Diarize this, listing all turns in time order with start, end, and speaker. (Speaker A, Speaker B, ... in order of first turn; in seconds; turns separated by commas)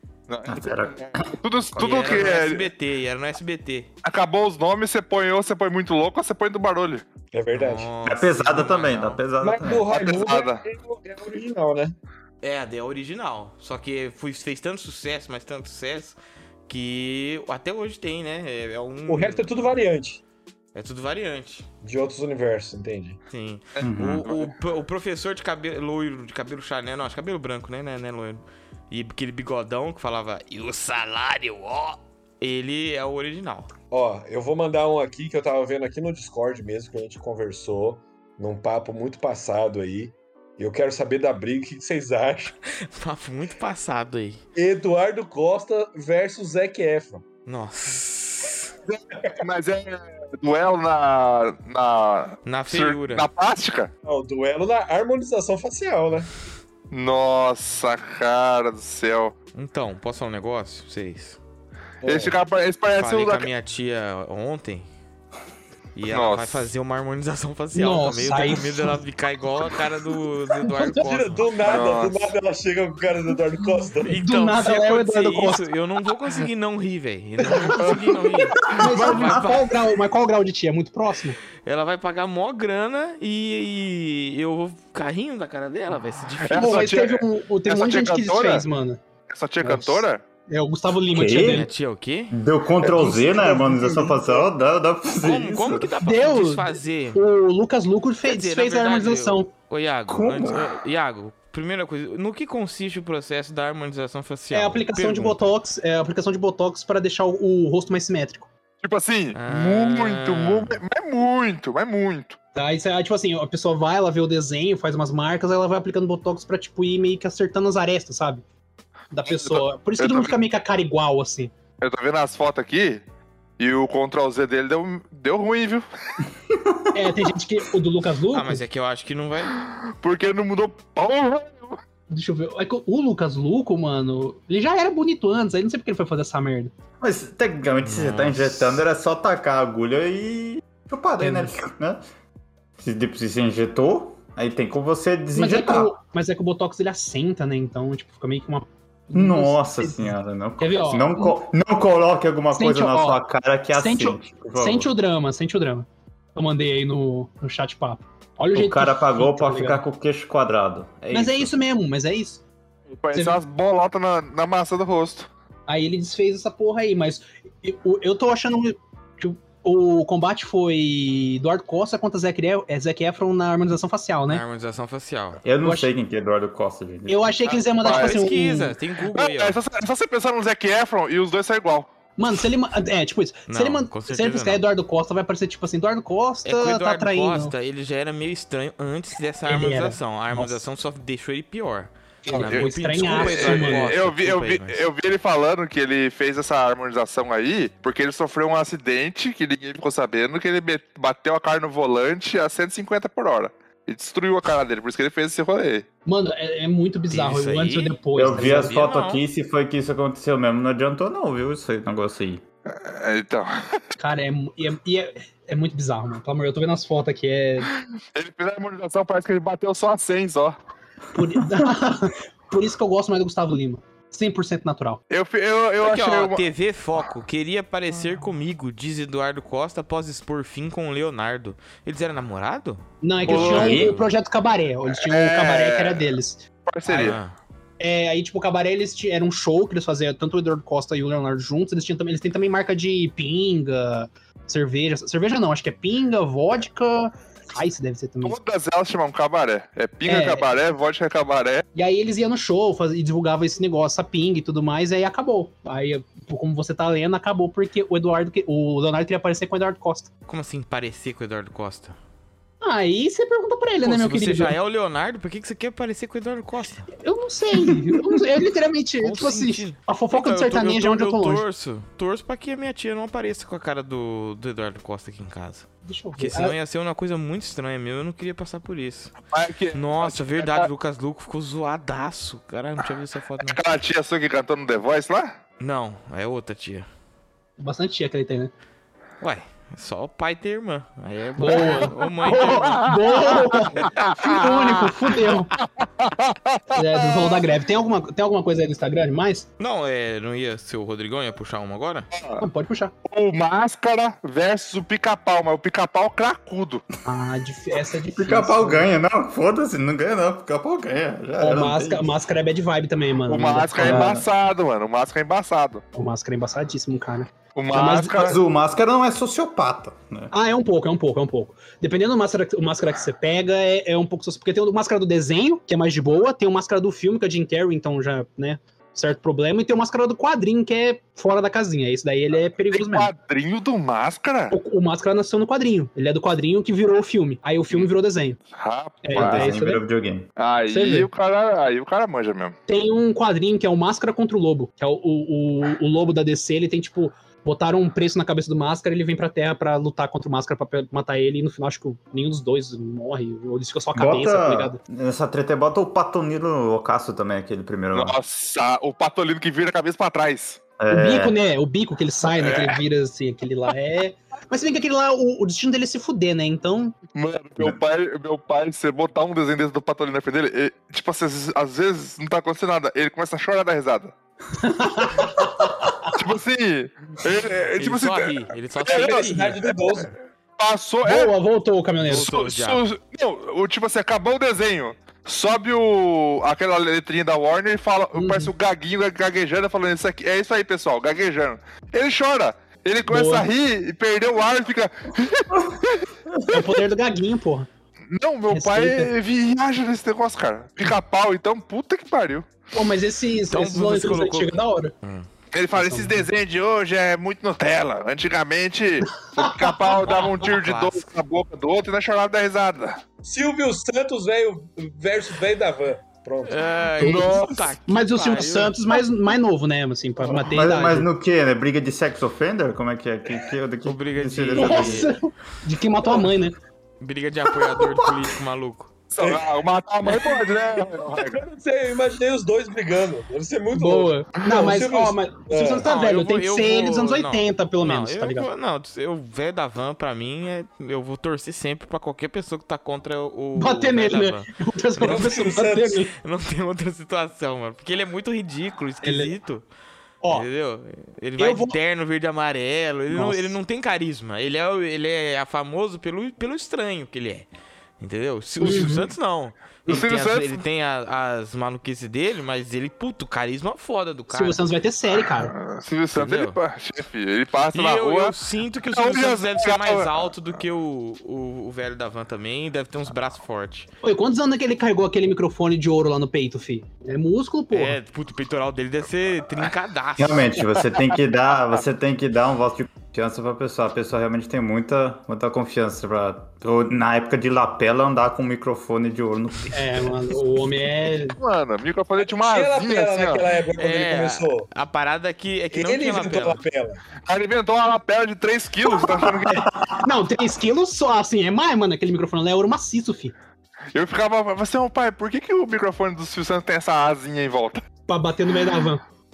Speaker A: 0.3-2.7, Speaker B: 0.5-2.0, Speaker C: 1.8-3.9, Speaker D: 2.1-2.4, Speaker A: 4.0-7.0, Speaker D: 7.3-7.9, Speaker C: 7.5-9.2, Speaker B: 8.0-9.9, Speaker D: 9.4-11.9, Speaker A: 9.9-10.6, Speaker C: 12.4-19.5, Speaker D: 19.1-20.2, Speaker C: 20.7-21.6, Speaker D: 21.8-23.2, Speaker C: 23.3-33.7, Speaker A: 23.8-24.5, Speaker B: 23.8-24.3, Speaker D: 33.9-42.5, Speaker C: 42.7-44.4, Speaker D: 44.5-47.2, Speaker C: 47.5-48.7, Speaker A: 48.9-53.9, Speaker C: 52.4-53.3, Speaker D: 54.0-56.3, Speaker A: 56.9-59.3, Speaker C: 59.5-61.4, Speaker D: 62.0-62.4, Speaker A: 62.0-63.5, Speaker C: 63.0-64.8, Speaker C: 65.9-71.8, Speaker A: 66.1-66.7, Speaker E: 67.7-69.0, Speaker D: 70.9-74.1, Speaker A: 71.6-72.3, Speaker C: 74.0-79.7, Speaker E: 74.1-75.7, Speaker E: 77.5-77.8, Speaker A: 77.8-78.0, Speaker A: 78.6-79.1, Speaker B: 78.6-79.7, Speaker E: 78.8-81.4, Speaker C: 81.6-86.9, Speaker A: 86.4-88.6, Speaker E: 86.6-89.0, Speaker A: 89.3-90.2, Speaker E: 89.6-91.7, Speaker B: 91.1-91.7, Speaker C: 91.3-92.4, Speaker B: 92.3-95.9, Speaker D: 92.8-94.5, Speaker C: 95.2-97.2, Speaker E: 96.0-99.5, Speaker C: 98.3-105.3, Speaker B: 100.1-100.7, Speaker E: 104.5-108.5, Speaker A: 108.8-112.4, Speaker C: 109.3-110.8, Speaker E: 112.5-118.4, Speaker E: 119.1-121.5, Speaker A: 119.3-120.3, Speaker A: 121.8-123.0, Speaker A: 123.6-125.8, Speaker B: 126.5-127.1, Speaker E: 126.9-128.6, Speaker C: 128.3-129.6, Speaker A: 129.9-131.8, Speaker E: 132.1-136.7, Speaker B: 137.0-142.0, Speaker C: 137.8-138.8, Speaker B: 142.8-145.9, Speaker E: 145.3-151.4, Speaker B: 149.1-154.9, Speaker E: 152.5-153.2, Speaker E: 153.7-159.8, Speaker B: 158.5-161.5, Speaker E: 161.1-162.4, Speaker A: 162.9-165.3, Speaker E: 165.7-174.4, Speaker C: 174.3-175.4, Speaker B: 175.4-177.3, Speaker E: 175.6-175.9, Speaker E: 177.1-178.8, Speaker C: 177.5-179.6, Speaker A: 177.8-178.2, Speaker A: 179.1-181.9, Speaker E: 182.2-187.5, Speaker C: 183.5-184.6, Speaker C: 186.4-194.9, Speaker E: 189.4-190.6, Speaker E: 192.2-193.9, Speaker A: 192.3-205.8, Speaker E: 206.1-208.8, Speaker C: 207.1-209.2, Speaker B: 208.1-212.4, Speaker A: 212.7-213.8, Speaker E: 214.0-217.7, Speaker A: 218.1-220.6, Speaker E: 221.1-225.0, Speaker A: 225.1-226.4, Speaker C: 225.8-234.1, Speaker E: 233.0-237.2, Speaker A: 233.3-233.8, Speaker B: 233.3-234.0, Speaker A: 234.9-236.1, Speaker A: 236.7-237.2, Speaker C: 236.9-237.3, Speaker E: 237.8-248.4, Speaker A: 248.2-251.7, Speaker E: 250.1-250.4, Speaker E: 251.7-260.1, Speaker C: 260.3-262.0, Speaker E: 262.6-264.5, Speaker C: 263.8-266.9, Speaker E: 267.0-271.4, Speaker C: 269.0-279.1, Speaker E: 275.9-276.6, Speaker A: 279.3-280.7, Speaker C: 279.7-283.6, Speaker A: 283.4-285.3, Speaker C: 285.6-286.9, Speaker E: 287.6-288.5, Speaker C: 289.2-292.9, Speaker E: 291.4-295.5, Speaker A: 292.5-297.4, Speaker E: 296.7-299.5, Speaker C: 299.6-302.1, Speaker A: 302.1-302.4, Speaker E: 302.4-302.9, Speaker A: 303.1-306.8, Speaker E: 307.1-308.9, Speaker B: 308.1-312.1, Speaker E: 311.4-314.1, Speaker A: 313.3-315.8, Speaker B: 313.8-314.3, Speaker E: 315.9-318.4, Speaker A: 317.6-318.4, Speaker B: 318.2-320.3, Speaker E: 320.3-333.1, Speaker A: 332.7-334.6, Speaker E: 334.5-338.4, Speaker A: 338.6-339.5, Speaker E: 339.0-339.8, Speaker B: 339.1-340.3, Speaker A: 340.4-342.6, Speaker E: 340.7-341.1, Speaker E: 342.7-354.8, Speaker B: 353.9-358.2, Speaker A: 357.9-360.6, Speaker B: 360.8-361.4, Speaker E: 360.9-366.9, Speaker A: 362.3-362.8, Speaker A: 367.1-374.1, Speaker E: 374.6-376.1, Speaker A: 376.1-381.3, Speaker C: 377.8-379.5, Speaker D: 378.9-380.1, Speaker E: 381.0-382.5, Speaker C: 382.0-382.9, Speaker A: 382.2-396.1, Speaker E: 388.2-388.5, Speaker E: 393.1-393.4, Speaker B: 396.3-396.7, Speaker E: 396.5-397.7, Speaker A: 398.1-402.5, Speaker E: 398.5-399.1, Speaker E: 402.7-404.9, Speaker C: 403.5-405.3, Speaker A: 405.5-413.0, Speaker E: 405.7-406.3, Speaker E: 409.2-409.9, Speaker C: 410.0-411.1, Speaker D: 413.2-416.6, Speaker C: 416.4-418.8, Speaker E: 417.0-421.1, Speaker A: 417.0-417.7, Speaker B: 420.3-425.1, Speaker C: 423.8-425.1, Speaker E: 424.6-426.6, Speaker C: 427.0-428.9, Speaker A: 429.1-431.4, Speaker D: 429.2-429.4, Speaker D: 431.1-435.9, Speaker E: 433.7-438.5, Speaker C: 435.8-444.5, Speaker E: 443.6-446.1, Speaker D: 445.0-446.0, Speaker C: 446.2-449.6, Speaker E: 449.0-449.3, Speaker C: 450.3-457.5, Speaker E: 451.4-451.8, Speaker E: 453.1-453.6, Speaker C: 458.0-464.6, Speaker E: 458.6-459.1, Speaker A: 459.9-460.6, Speaker E: 464.3-465.5, Speaker A: 465.1-468.3, Speaker C: 466.1-466.6, Speaker C: 467.7-473.9, Speaker A: 468.9-470.3, Speaker E: 474.0-478.0, Speaker C: 477.7-480.6, Speaker B: 480.2-490.4, Speaker E: 489.7-491.4, Speaker A: 491.3-493.5, Speaker D: 492.2-494.7, Speaker C: 493.8-496.6, Speaker D: 495.7-497.0, Speaker A: 497.2-499.7, Speaker B: 499.0-500.1, Speaker E: 500.0-503.3, Speaker A: 503.9-507.8, Speaker E: 508.1-509.0